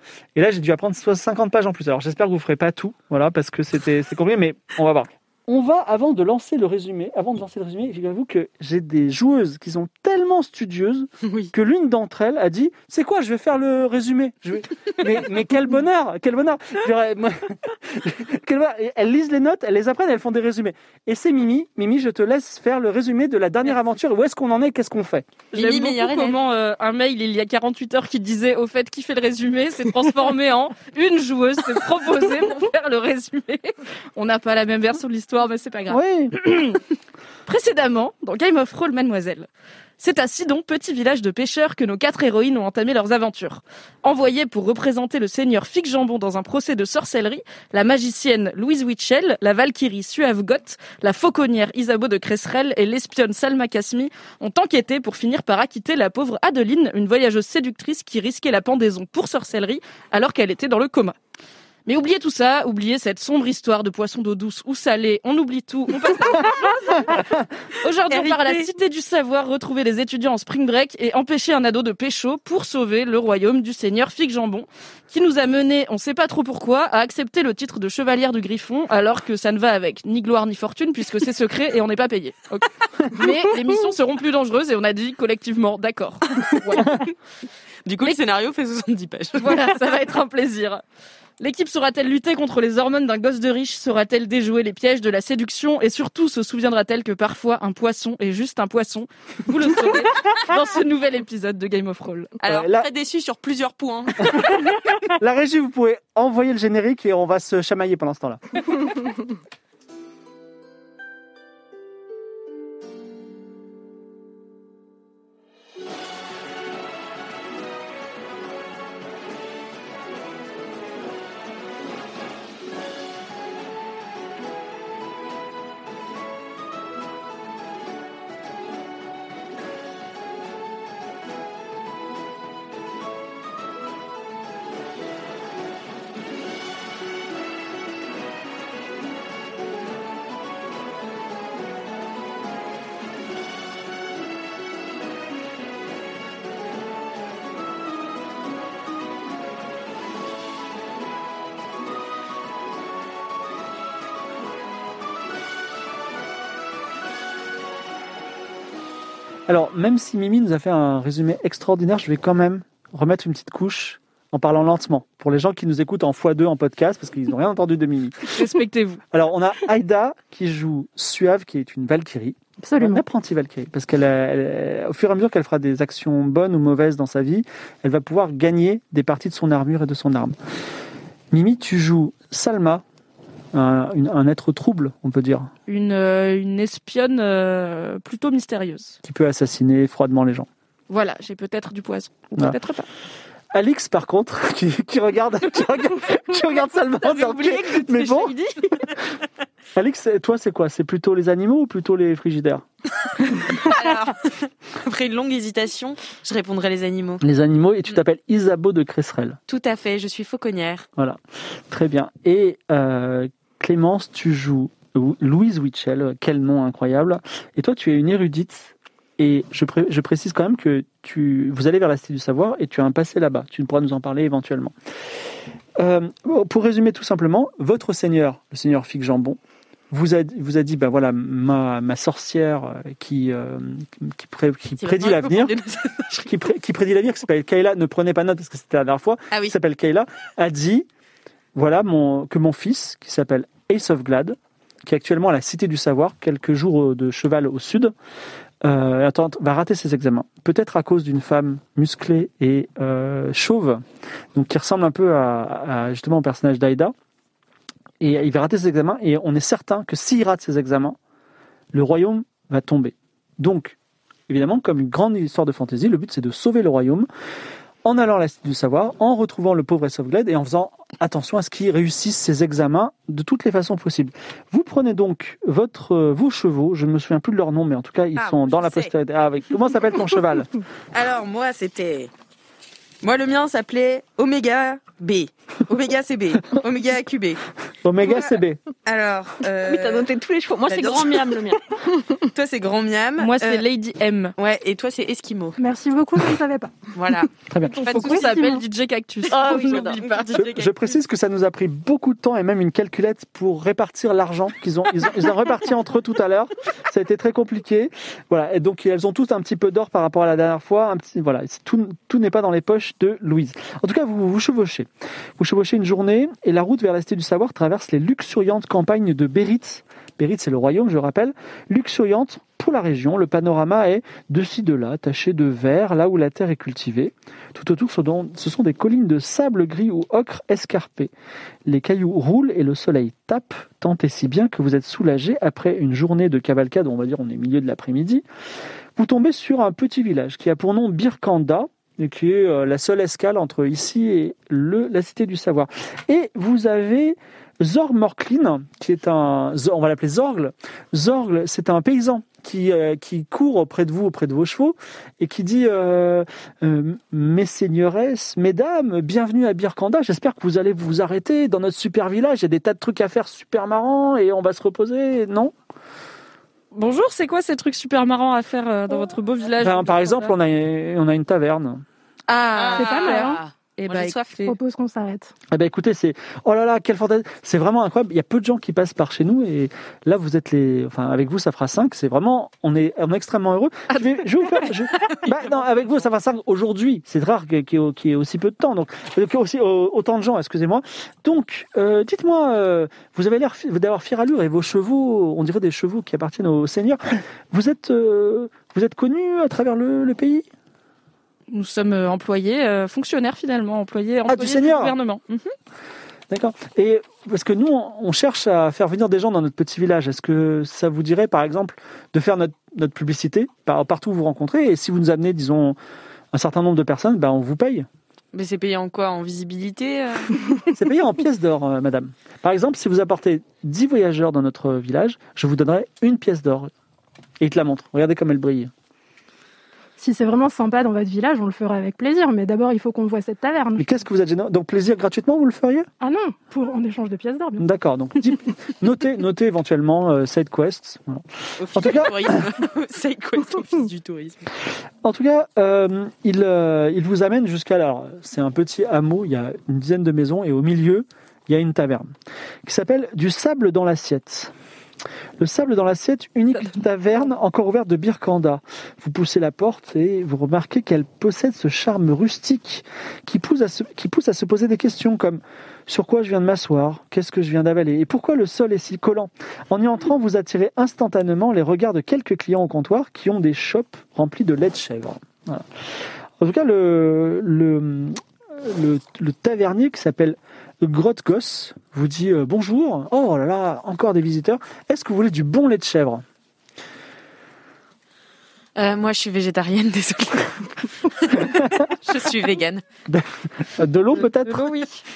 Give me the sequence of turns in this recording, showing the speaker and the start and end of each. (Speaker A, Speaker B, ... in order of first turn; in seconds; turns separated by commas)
Speaker A: 0.3-25.4, Speaker B: 11.2-11.5, Speaker B: 25.5-26.4, Speaker C: 25.5-36.8, Speaker A: 35.9-36.3, Speaker C: 37.5-39.5, Speaker C: 40.0-61.1, Speaker C: 61.9-67.2, Speaker B: 66.0-67.1, Speaker C: 67.8-87.0, Speaker B: 68.1-68.7, Speaker B: 86.5-87.0, Speaker B: 87.8-89.9, Speaker C: 89.4-90.8, Speaker C: 91.4-102.3, Speaker B: 102.4-104.5, Speaker A: 102.4-102.9, Speaker A: 105.0-108.4, Speaker A: 159.5-168.4, Speaker C: 168.3-169.0, Speaker A: 169.1-180.4, Speaker D: 172.6-173.0, Speaker A: 181.3-182.8, Speaker A: 183.5-185.5, Speaker C: 185.7-189.0, Speaker A: 189.0-190.5, Speaker C: 190.9-192.9, Speaker A: 193.5-198.3, Speaker C: 197.0-198.8, Speaker A: 199.7-202.6, Speaker B: 203.5-207.2, Speaker A: 207.2-209.4, Speaker B: 209.5-210.9, Speaker A: 211.0-224.7, Speaker A: 225.8-229.4, Speaker A: 229.9-235.5, Speaker B: 234.8-236.3, Speaker A: 236.1-240.9, Speaker A: 241.5-247.9, Speaker A: 248.6-253.8, Speaker A: 254.3-256.9, Speaker A: 258.0-261.0, Speaker A: 261.7-263.8, Speaker A: 264.3-267.1, Speaker A: 267.8-280.5, Speaker B: 278.1-278.9, Speaker B: 280.9-282.1, Speaker B: 283.0-287.4, Speaker A: 287.8-288.6, Speaker B: 288.0-290.1, Speaker E: 289.6-292.2, Speaker B: 290.7-291.5, Speaker B: 292.3-293.6, Speaker C: 293.2-294.3, Speaker B: 294.4-295.6, Speaker D: 295.6-296.9, Speaker B: 296.9-297.3, Speaker A: 297.5-297.8, Speaker C: 297.7-300.4, Speaker B: 297.8-298.4, Speaker D: 298.1-298.6, Speaker B: 299.3-300.9, Speaker E: 299.3-300.2, Speaker A: 300.3-331.1, Speaker A: 331.6-338.2, Speaker A: 339.0-365.5, Speaker C: 366.7-370.3, Speaker A: 369.6-371.8, Speaker C: 372.3-374.6, Speaker B: 372.5-374.5, Speaker D: 372.7-373.4, Speaker D: 374.4-375.3, Speaker A: 375.5-400.5, Speaker C: 383.9-384.7, Speaker C: 401.5-405.5, Speaker A: 404.3-404.9, Speaker A: 406.3-415.8, Speaker A: 416.3-417.9, Speaker B: 418.3-420.4, Speaker A: 420.7-426.7, Speaker A: 427.4-428.7, Speaker D: 430.0-433.9, Speaker A: 433.8-435.9, Speaker D: 436.0-437.7, Speaker A: 437.6-442.5, Speaker B: 441.6-444.5, Speaker A: 445.0-452.1, Speaker A: 452.6-454.5, Speaker A: 455.4-475.7, Speaker A: 476.4-486.2, Speaker B: 488.8-492.8, Speaker A: 493.1-494.7, Speaker C: 494.4-494.9